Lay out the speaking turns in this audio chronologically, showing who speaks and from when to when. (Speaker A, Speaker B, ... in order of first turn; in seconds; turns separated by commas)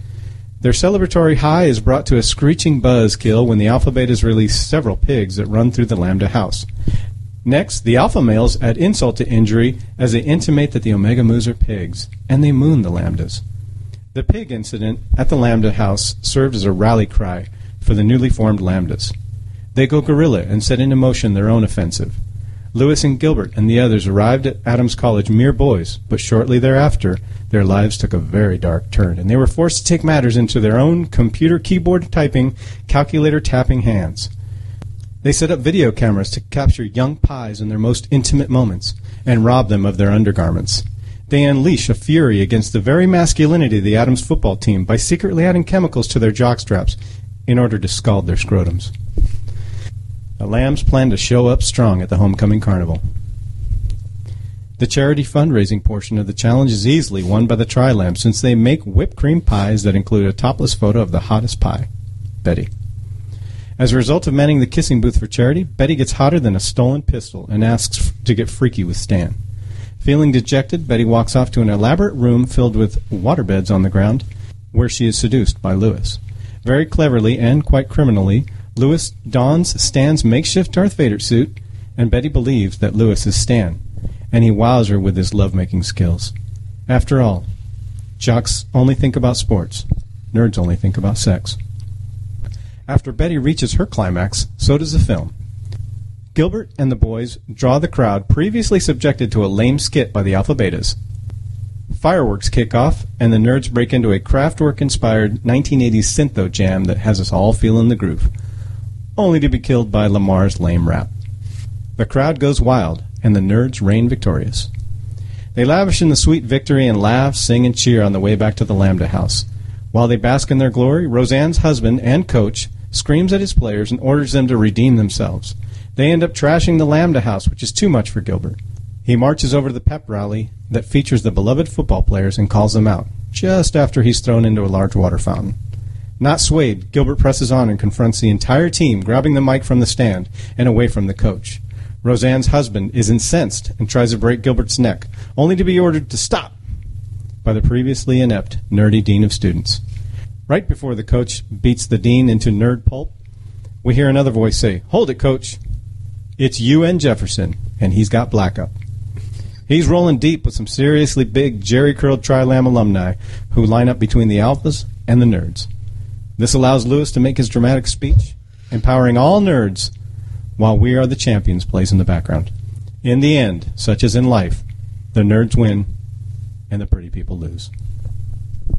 Speaker A: 0.6-6.7, Speaker A: 7.4-13.4, Speaker A: 14.1-19.1, Speaker A: 19.7-22.2, Speaker A: 22.7-34.3, Speaker A: 35.2-48.9, Speaker A: 50.4-53.0, Speaker A: 54.8-61.9, Speaker A: 62.4-62.7, Speaker A: 63.8-69.4, Speaker A: 70.0-83.8, Speaker A: 84.3-86.3, Speaker A: 86.9-87.5, Speaker A: 88.2-91.6, Speaker A: 92.9-95.3, Speaker A: 96.3-101.0, Speaker A: 101.9-108.3, Speaker A: 109.2-111.1, Speaker A: 112.0-114.7, Speaker A: 115.5-135.6, Speaker A: 136.2-146.6, Speaker A: 147.4-149.8, Speaker A: 150.5-153.1, Speaker A: 153.8-155.6, Speaker A: 156.4-158.7, Speaker A: 159.7-165.7, Speaker A: 166.4-169.9, Speaker A: 170.6-172.5, Speaker A: 173.0-175.9, Speaker A: 176.7-177.7